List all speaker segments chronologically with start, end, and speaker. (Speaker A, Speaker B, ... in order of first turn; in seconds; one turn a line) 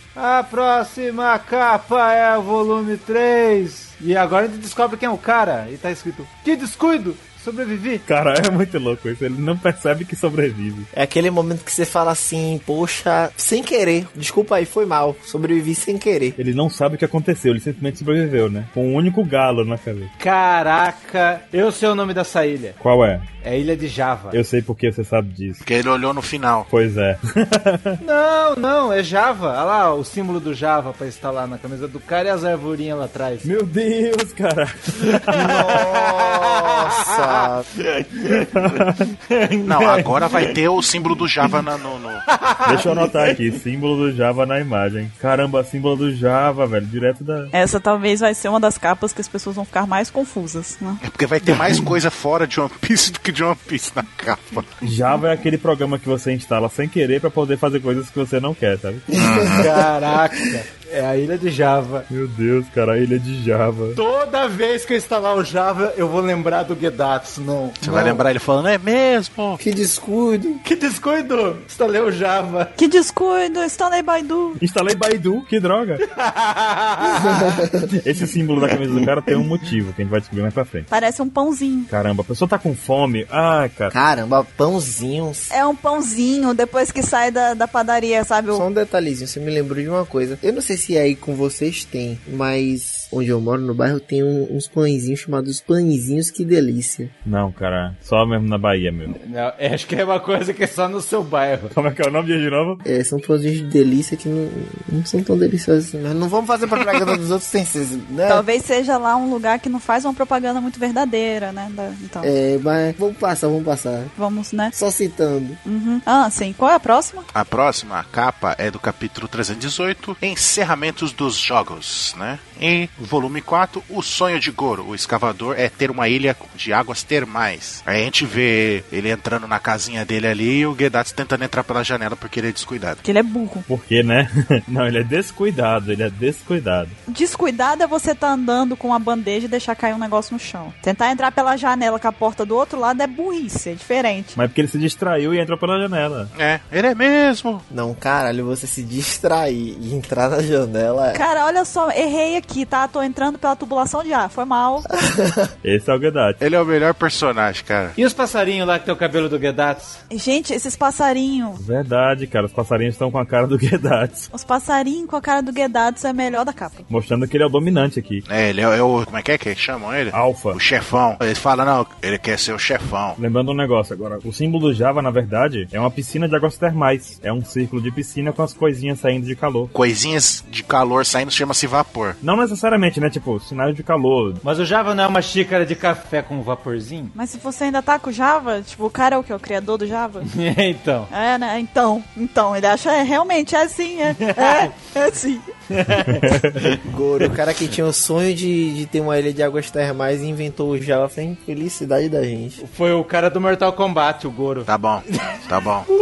Speaker A: 0.2-8.0
Speaker B: 8.1-10.9
Speaker C: 10.9-16.4
Speaker B: 16.4-20.1
Speaker A: 20.2-22.8
Speaker B: 22.8-23.3
Speaker A: 23.4-24.4
Speaker B: 24.3-25.6
Speaker D: 25.6-26.7
Speaker B: 26.7-28.0
Speaker A: 28.0-33.5
Speaker B: 33.4-35.6
Speaker A: 35.1-38.5
Speaker C: 35.4-37.7
Speaker B: 38.5-39.1
Speaker A: 39.3-40.6
Speaker D: 39.6-42.2
Speaker A: 42.3-43.4
Speaker B: 42.6-47.5
Speaker E: 47.5-51.0
Speaker D: 51.0-54.8
Speaker B: 54.8-59.2
Speaker C: 59.1-59.8
Speaker D: 59.1-59.7
Speaker A: 59.6-62.1
Speaker B: 62.1-64.0
Speaker A: 64.0-68.2
Speaker D: 67.8-69.6
Speaker C: 69.6-70.6
Speaker A: 70.6-72.7
Speaker E: 72.8-74.6
Speaker B: 74.6-76.0
Speaker A: 76.0-77.5
Speaker C: 77.1-77.8
Speaker B: 77.9-80.9
Speaker E: 80.9-81.9
Speaker B: 81.9-83.9
Speaker C: 83.9-85.5
Speaker E: 85.5-88.7
Speaker C: 88.5-97.1
Speaker B: 97.2-99.1
Speaker A: 99.1-101.7
Speaker B: 101.7-102.8
Speaker C: 102.8-108.5
Speaker E: 108.3-112.3
Speaker C: 112.2-114.1
Speaker E: 114.2-114.7
Speaker C: 114.7-115.6
Speaker E: 115.7-117.3
Speaker D: 117.3-133.0
Speaker E: 133.0-133.7
Speaker B: 133.7-136.9
Speaker E: 137.1-144.4
Speaker B: 144.4-146.3
Speaker D: 146.3-147.7
Speaker C: 147.7-151.2
Speaker E: 151.1-154.9
Speaker C: 154.9-155.5
Speaker B: 155.6-156.4
Speaker D: 156.4-157.9
Speaker A: 158.0-160.0
Speaker E: 160.1-161.6
Speaker B: 161.6-164.3
Speaker E: 164.3-166.9
Speaker B: 166.9-168.2
Speaker D: 168.3-173.2
Speaker B: 170.1-170.6
Speaker B: 173.2-179.7
Speaker D: 179.7-182.2
Speaker B: 182.2-184.4
Speaker A: 184.4-187.1
Speaker E: 187.1-190.3
Speaker A: 190.2-191.1
Speaker E: 191.1-195.5
Speaker A: 194.2-194.7
Speaker A: 195.7-196.8
Speaker B: 196.2-196.5
Speaker C: 196.8-202.6
Speaker A: 202.6-205.4
Speaker D: 204.7-205.9